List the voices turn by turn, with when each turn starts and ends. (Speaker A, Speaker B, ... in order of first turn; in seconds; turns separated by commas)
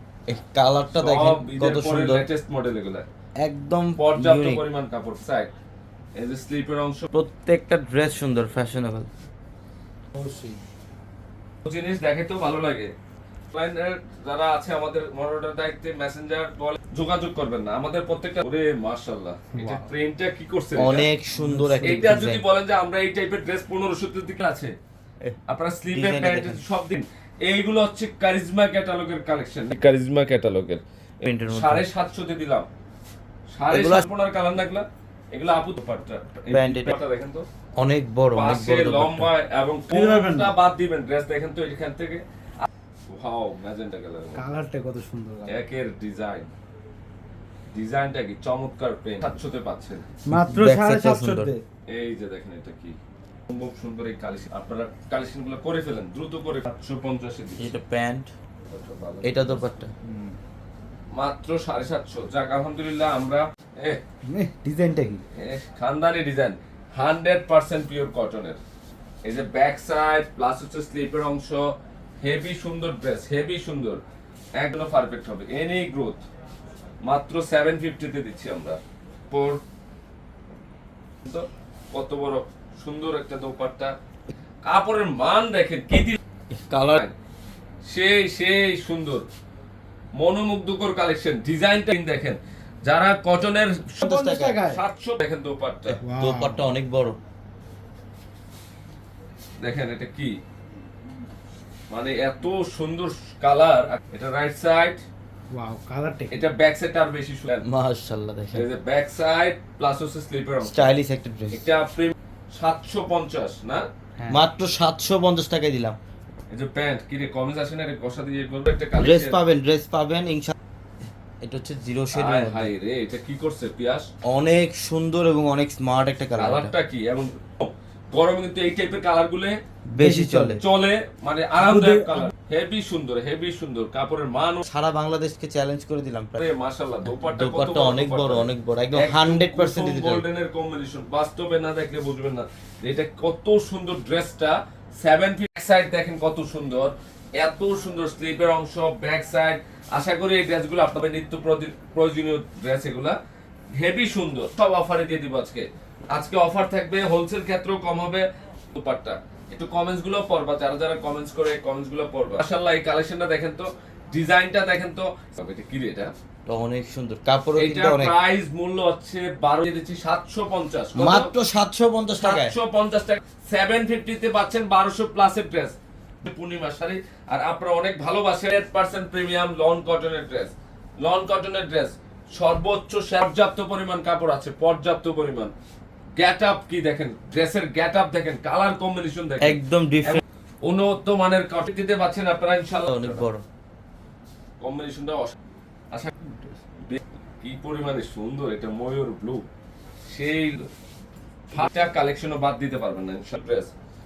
Speaker A: 0.3-2.3, Speaker B: 0.9-3.0, Speaker A: 3.4-4.6, Speaker B: 4.0-5.5, Speaker B: 6.1-7.1, Speaker A: 7.1-9.1, Speaker C: 10.1-10.6, Speaker B: 11.6-12.9, Speaker B: 13.5-21.1, Speaker C: 19.5-19.9, Speaker A: 20.8-22.4, Speaker C: 21.4-21.8, Speaker B: 21.8-24.7, Speaker B: 25.5-30.8, Speaker A: 25.9-26.6, Speaker A: 31.2-31.8, Speaker B: 31.5-32.7, Speaker B: 33.5-37.5, Speaker A: 33.7-34.1, Speaker A: 36.5-37.0, Speaker A: 37.8-39.3, Speaker B: 38.3-44.5, Speaker C: 39.9-40.5, Speaker C: 44.3-45.5, Speaker B: 45.5-46.5, Speaker B: 47.7-50.1, Speaker C: 50.3-51.5, Speaker A: 50.3-51.6, Speaker B: 51.9-53.0, Speaker B: 53.5-57.8, Speaker A: 57.6-58.3, Speaker B: 58.7-59.6, Speaker A: 59.2-59.9, Speaker C: 60.0-60.4, Speaker B: 61.1-64.0, Speaker C: 64.3-65.2, Speaker B: 65.4-68.6, Speaker B: 69.2-71.7, Speaker B: 72.2-74.0, Speaker B: 74.5-76.2, Speaker B: 77.0-78.8, Speaker B: 79.3-79.6, Speaker B: 81.2-83.9, Speaker B: 84.7-86.2, Speaker A: 86.5-87.0, Speaker B: 87.9-89.2, Speaker B: 90.2-96.0, Speaker A: 94.0-94.7, Speaker C: 94.0-94.8, Speaker C: 96.0-96.7, Speaker A: 96.0-97.2, Speaker B: 99.6-100.3, Speaker B: 101.9-105.0, Speaker C: 105.5-106.4, Speaker B: 106.3-107.6, Speaker A: 107.6-108.7, Speaker B: 108.5-110.9, Speaker A: 110.6-111.7, Speaker B: 111.5-113.8, Speaker A: 114.3-116.0, Speaker B: 116.5-119.4, Speaker A: 119.0-120.5, Speaker A: 121.4-122.7, Speaker B: 122.1-124.1, Speaker A: 124.3-126.7, Speaker B: 126.4-129.6, Speaker A: 129.9-130.6, Speaker C: 130.0-130.6, Speaker B: 130.6-134.6, Speaker C: 131.6-132.3, Speaker A: 134.6-136.5, Speaker B: 136.4-153.2, Speaker A: 137.1-140.2, Speaker B: 153.8-166.1, Speaker A: 166.4-168.2, Speaker B: 167.6-171.3, Speaker A: 170.9-172.6, Speaker B: 172.2-185.5, Speaker B: 186.2-193.2, Speaker A: 189.4-190.2, Speaker A: 192.8-193.4, Speaker B: 194.6-195.3, Speaker B: 196.8-199.4, Speaker B: 200.1-200.7, Speaker B: 201.5-203.7